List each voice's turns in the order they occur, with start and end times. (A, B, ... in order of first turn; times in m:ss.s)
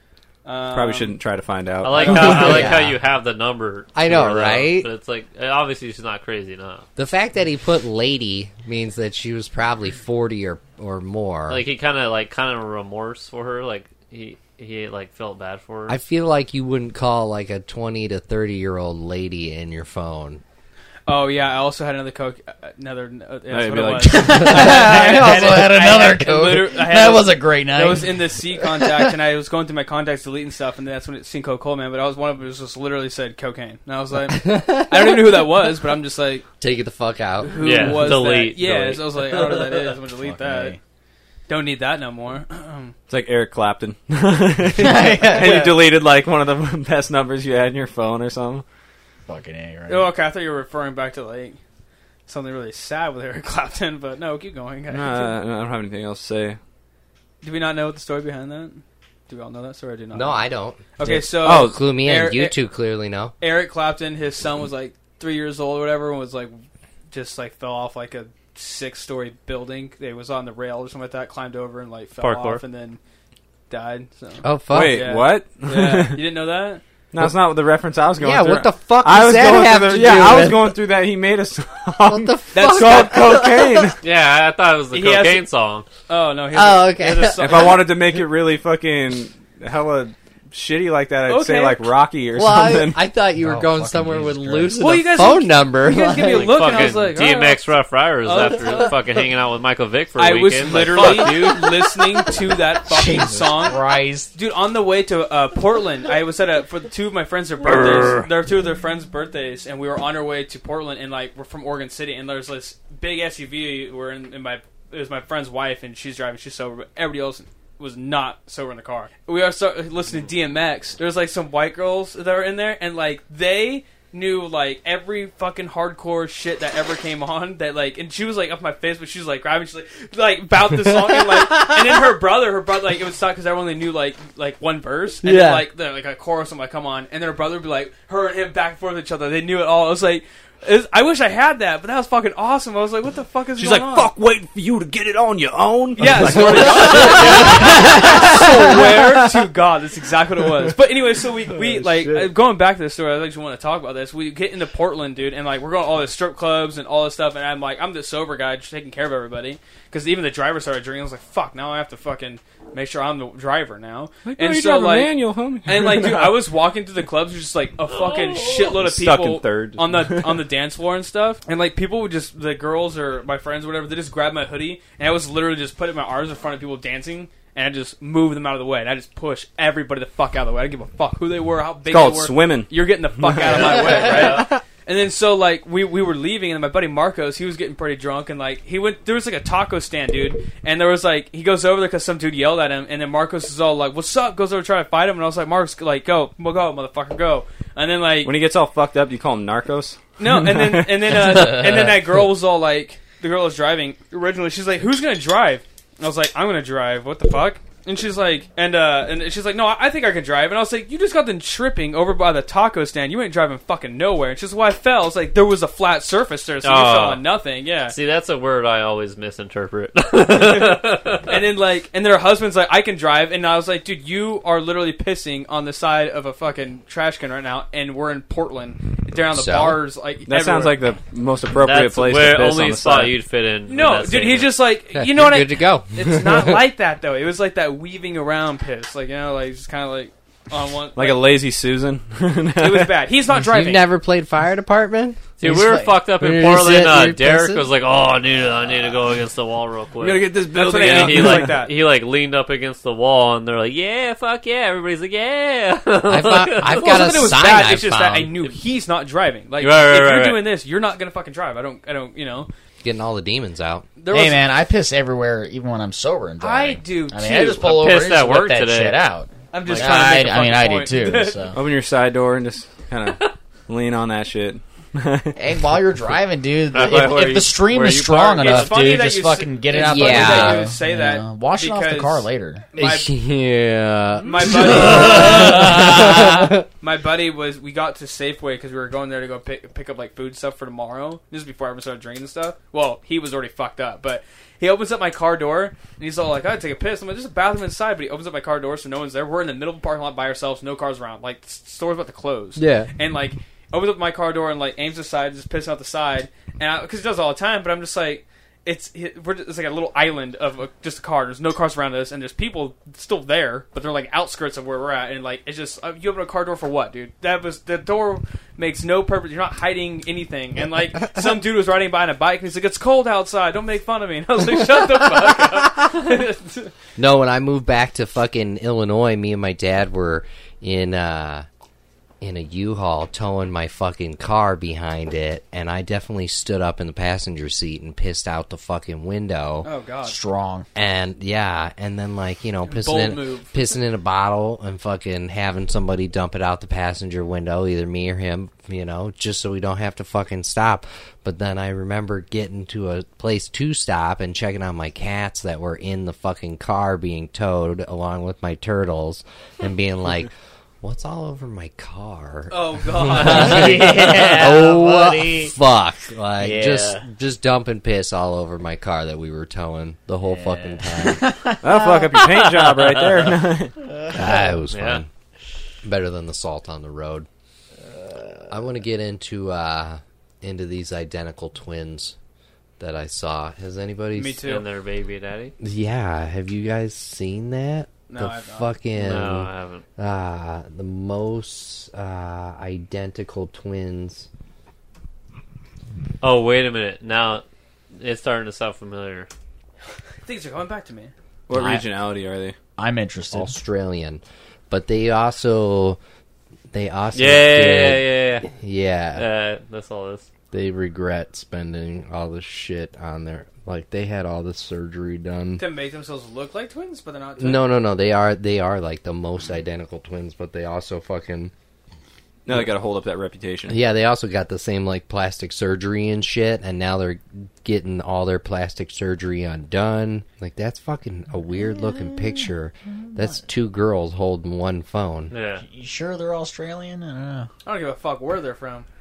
0:00.4-0:01.2 A
0:00.7-0:02.7 B
0:01.8-0:06.9 C
0:02.0-0:02.7 A
0:02.0-0:03.0 D
0:03.9-0:04.9 D
0:07.0-0:11.6 D
0:11.5-0:16.0 C
0:15.9-0:20.4 D
0:21.1-0:36.4 A
0:23.5-0:24.9 B
0:24.0-0:29.2 E
0:34.3-0:35.4 D
0:36.6-0:37.8 D
0:37.5-0:40.8 A
0:37.6-0:39.7 C
0:40.1-0:40.8 E
0:41.5-0:42.9 A
0:43.1-0:48.6 B
0:44.8-0:45.7 E
0:49.3-0:50.1 E
0:49.9-0:51.6 A
0:52.2-0:55.4 A
0:54.9-0:56.6 B
0:57.4-1:02.6 A
1:00.1-1:03.3 D
1:01.0-1:01.8 B
1:03.4-1:06.5 A
1:07.1-1:13.0 A
1:12.2-1:12.6 C
1:13.7-1:16.8 A
1:14.4-1:15.0 D
1:14.7-1:16.2 B
1:17.1-1:24.0 B
1:18.2-1:20.8 D
1:22.0-1:23.9 D
1:22.5-1:23.5 A
1:24.0-1:25.8 C
1:24.9-1:25.4 A
1:26.1-1:28.0 A
1:26.5-1:27.8 D
1:27.4-1:33.0 B
1:31.2-1:31.9 A
1:32.3-1:36.6 D
1:33.4-1:34.8 E
1:34.8-1:37.6 A
1:36.1-1:42.0 C
1:38.2-1:39.0 A
1:40.2-1:43.8 A
1:42.8-1:44.3 E
1:44.3-2:24.1 A
2:15.2-2:15.6 D
2:23.6-2:29.3 B
2:26.0-3:18.4 A
2:27.0-2:27.8 C
2:31.5-2:32.3 B
2:44.2-2:46.4 B
2:47.9-2:48.7 C
2:48.6-2:50.4 B
3:01.8-3:04.1 B
3:03.8-3:04.5 C
3:18.2-3:21.8 B
3:20.2-3:37.9 A
3:36.6-3:37.2 C
3:37.9-3:41.4 C
3:40.3-3:50.8 A
3:49.3-3:49.8 D
3:50.2-3:53.1 B
3:51.5-3:54.6 C
3:53.7-4:01.2 A
3:54.9-3:56.6 D
4:01.0-4:03.0 B
4:02.6-4:03.8 A
4:03.3-4:05.3 D
4:05.4-4:17.1 C
4:05.4-4:05.9 E
4:06.2-4:07.6 D
4:10.0-4:11.6 B
4:10.5-4:11.7 A
4:16.0-4:18.4 D
4:16.7-4:22.5 A
4:19.6-4:20.4 C
4:22.8-4:23.8 D
4:24.0-4:24.4 A
4:24.1-4:31.6 E
4:26.4-4:27.7 A
4:27.6-4:29.0 C
4:29.5-4:31.5 A
4:31.5-4:35.4 B
4:35.4-4:42.6 E
4:36.7-4:38.1 B
4:36.8-4:37.2 C
4:37.7-4:38.7 C
4:38.3-4:43.1 A
4:39.7-4:40.7 D
4:42.7-4:46.6 D
4:44.2-5:26.7 A
4:44.6-4:46.3 E
5:02.6-5:02.9 D
5:27.0-5:31.4 D
5:32.2-5:39.7 D
5:39.6-5:40.2 A
5:40.0-5:40.7 E
5:40.7-6:00.3 D
5:42.7-5:43.6 A
6:00.8-6:11.3 D
6:02.5-6:03.8 A
6:03.1-6:05.5 E
6:06.4-6:07.0 E
6:10.3-6:12.2 E
6:11.6-6:13.8 B
6:12.3-6:13.3 C
6:14.1-6:15.1 D
6:14.7-6:15.0 C
6:15.8-6:17.3 D
6:18.1-6:18.3 E
6:18.5-6:22.2 D
6:22.8-6:24.4 D
6:24.1-6:24.6 A
6:24.4-6:25.5 C
6:25.6-6:34.3 D
6:28.1-6:28.7 A
6:28.9-6:29.8 C
6:36.2-6:37.4 C
6:38.0-6:39.3 C
6:40.2-6:41.1 A
6:41.5-6:42.5 B
6:41.5-6:41.8 E
6:42.8-6:43.5 E
6:43.3-6:46.0 D
6:46.7-6:49.2 D
6:47.1-6:48.5 C
6:49.1-6:50.2 C
6:50.5-6:55.6 D
6:55.6-6:57.6 A
6:57.4-7:01.5 D
7:02.4-7:03.8 B
7:03.7-7:15.3 D
7:15.3-7:15.6 C
7:15.6-7:17.5 E
7:17.6-7:18.8 A